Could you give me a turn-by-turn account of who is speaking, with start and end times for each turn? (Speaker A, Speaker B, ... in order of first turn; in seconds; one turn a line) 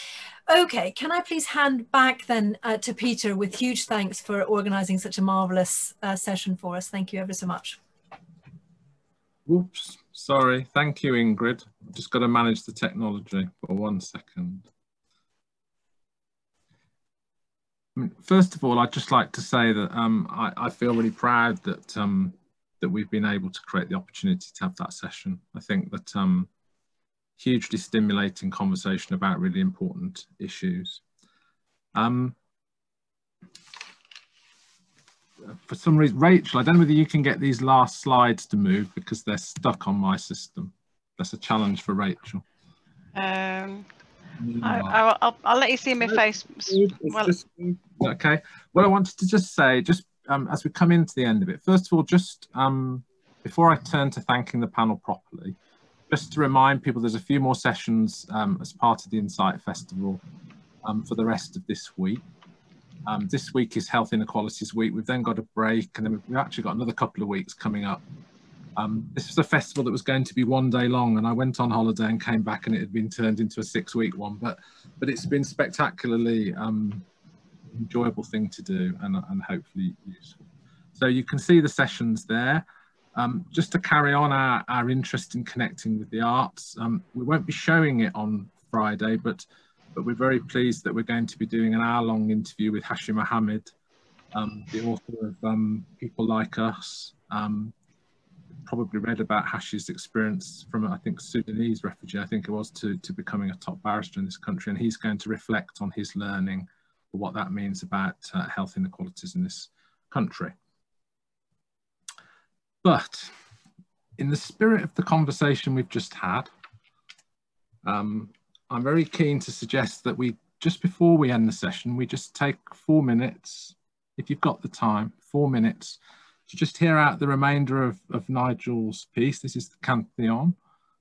Speaker A: 0.5-7.8
Speaker B: 9.4-14.7
Speaker B: 17.9-26.5
Speaker B: 27.4-31.0
Speaker B: 31.9-32.4
Speaker B: 35.6-42.4
Speaker C: 43.1-43.9
Speaker B: 44.4-44.9
Speaker C: 44.6-47.4
Speaker B: 46.9-47.3
Speaker B: 47.9-55.6
Speaker B: 56.1-60.2
Speaker B: 60.8-62.2
Speaker B: 63.0-68.0
Speaker B: 68.7-77.0
Speaker B: 77.7-80.4
Speaker B: 80.9-93.7
Speaker B: 94.3-97.7
Speaker B: 98.6-110.5
Speaker B: 112.8-113.3
Speaker B: 114.2-116.5
Speaker B: 117.8-130.6